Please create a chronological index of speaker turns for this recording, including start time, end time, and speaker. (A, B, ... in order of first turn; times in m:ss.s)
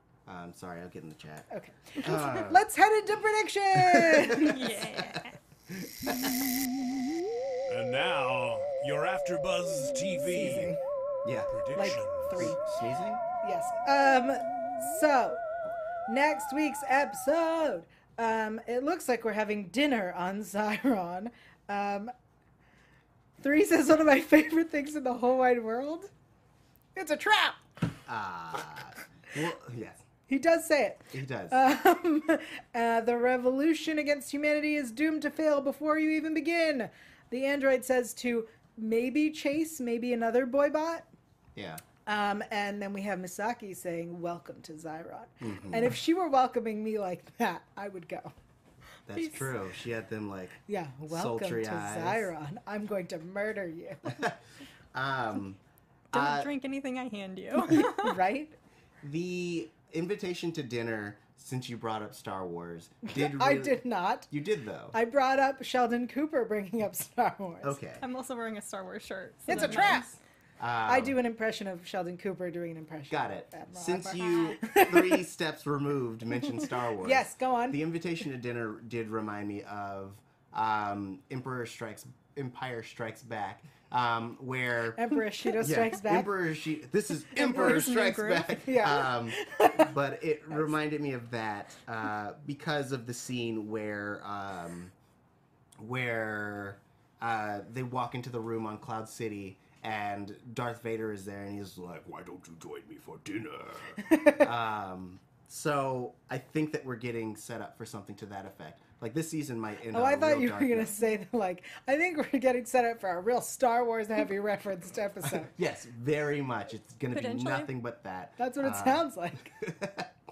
0:00.3-0:02.6 A
0:01.5-0:04.8 B
0:03.8-0:06.7 A
0:04.4-0:05.4 C
0:07.7-0:10.7 D
0:10.3-0:10.8 B
0:11.2-0:11.5 A
0:11.5-0:12.3 D
0:11.7-0:12.6 B
0:12.4-0:13.2 A
0:13.4-0:15.4 B
0:16.1-0:22.1 B
0:23.4-0:26.1 B
0:27.0-0:27.6 B
0:28.1-0:30.0 A
0:30.3-0:41.1 B
0:31.1-0:31.6 A
0:41.6-0:41.8 A
0:42.1-0:48.3 B
0:45.4-0:45.9 A
0:49.1-0:52.3 A
0:50.7-0:54.3 B
0:54.1-0:54.4 A
0:54.9-0:55.6 A
0:56.1-0:56.5 A
0:56.1-0:58.2 C
0:57.6-0:58.6 B
0:59.0-1:03.8 A
1:03.1-1:04.3 B
1:04.3-1:05.0 A
1:04.9-1:07.8 B
1:07.6-1:08.0 A
1:08.0-1:10.1 C
1:09.5-1:10.1 B
1:09.5-1:10.1 A
1:10.6-1:11.2 A
1:10.9-1:15.2 B
1:13.1-1:34.9 A
1:14.2-1:14.6 C
1:17.0-1:17.8 B
1:25.0-1:26.3 B
1:27.3-1:28.5 C
1:27.5-1:28.0 B
1:28.5-1:29.9 B
1:35.8-1:50.9 A
1:44.0-1:44.5 B
1:49.9-1:55.5 B
1:55.2-2:00.1 A
1:57.1-1:57.7 C
1:58.4-1:59.5 B